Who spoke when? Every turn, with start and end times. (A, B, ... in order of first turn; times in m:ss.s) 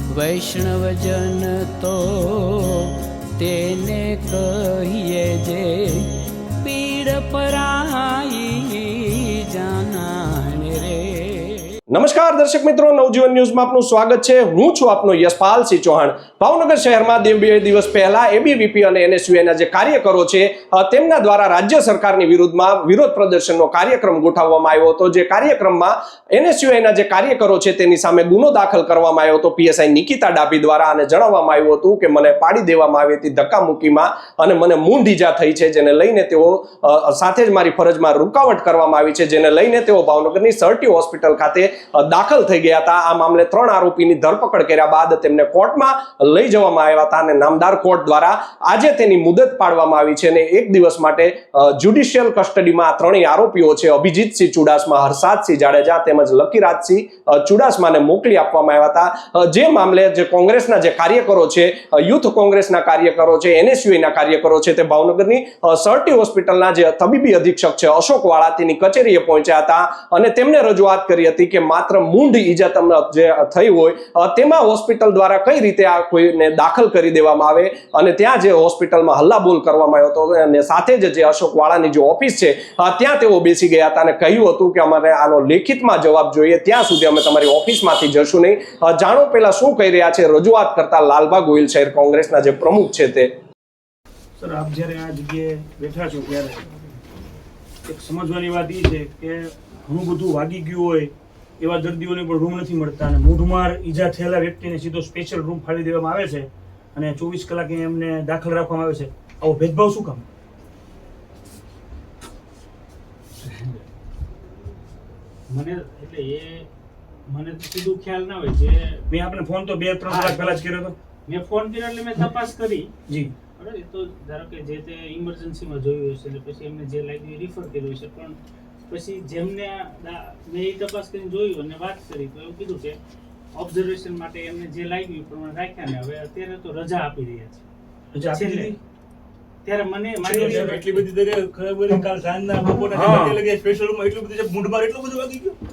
0:00.1-0:02.8 A
0:03.4-0:06.0 A
0:06.6-0:11.6 A
0:11.9-1:33.3 B
1:34.4-1:36.6 C
1:37.9-1:50.2 C
1:53.5-1:53.8 D
1:55.5-1:56.7 D
1:57.3-1:59.1 D
1:59.1-2:00.9 C
2:00.1-2:00.6 D
2:01.3-2:02.9 D
2:03.1-2:03.3 C
2:03.6-2:08.4 D
2:08.9-2:13.0 D
2:13.5-2:17.6 D
2:18.1-2:18.8 C
2:18.3-2:18.8 D
2:19.6-2:21.0 D
2:20.2-2:20.8 C
2:20.2-2:25.6 E
2:22.9-2:23.4 C